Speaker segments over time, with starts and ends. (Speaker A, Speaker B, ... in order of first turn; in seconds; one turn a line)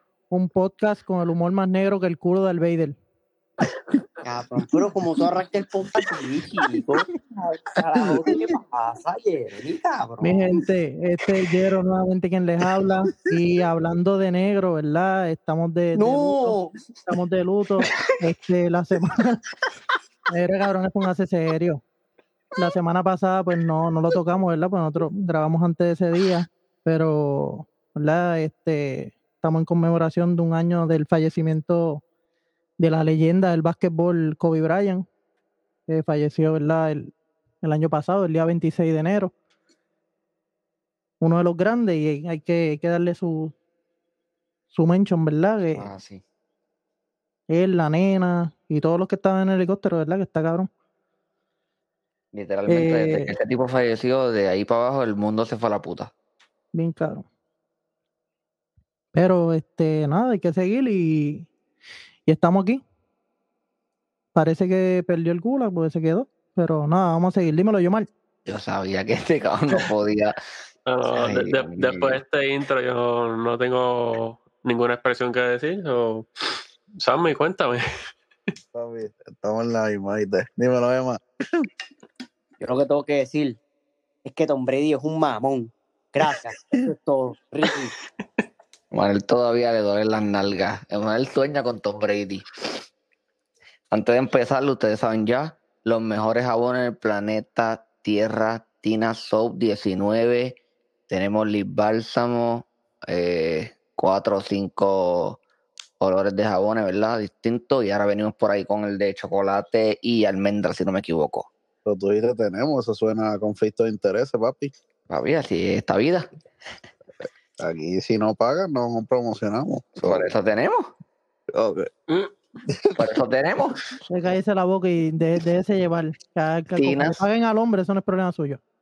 Speaker A: 0.3-3.0
Speaker B: 4.2-10.5
Speaker A: 10.2-19.4
Speaker B: 15.9-16.8
Speaker A: 20.3-21.8
Speaker A: 22.6-32.0
Speaker A: 32.8-35.0
Speaker A: 35.9-39.3
Speaker A: 41.2-43.5
Speaker A: 44.7-45.9
Speaker C: 45.8-46.2
Speaker A: 47.5-50.7
Speaker C: 52.3-56.1
Speaker A: 52.7-53.3
Speaker A: 56.7-57.3
Speaker A: 59.1-61.5
Speaker A: 62.2-62.8
Speaker A: 64.3-68.1
Speaker C: 68.5-70.4
Speaker D: 70.9-76.3
Speaker C: 71.1-72.2
Speaker D: 77.0-77.8
Speaker E: 78.7-81.7
Speaker B: 82.6-83.6
Speaker B: 84.2-87.9
Speaker C: 88.9-92.8
Speaker C: 93.9-100.6
Speaker C: 101.1-105.4
Speaker C: 106.0-111.5
Speaker E: 111.8-114.7
Speaker C: 115.1-116.3
Speaker E: 117.6-120.3
Speaker C: 120.0-120.9
Speaker E: 121.5-123.0
Speaker C: 123.0-123.8
Speaker A: 124.1-128.6
Speaker C: 126.8-127.2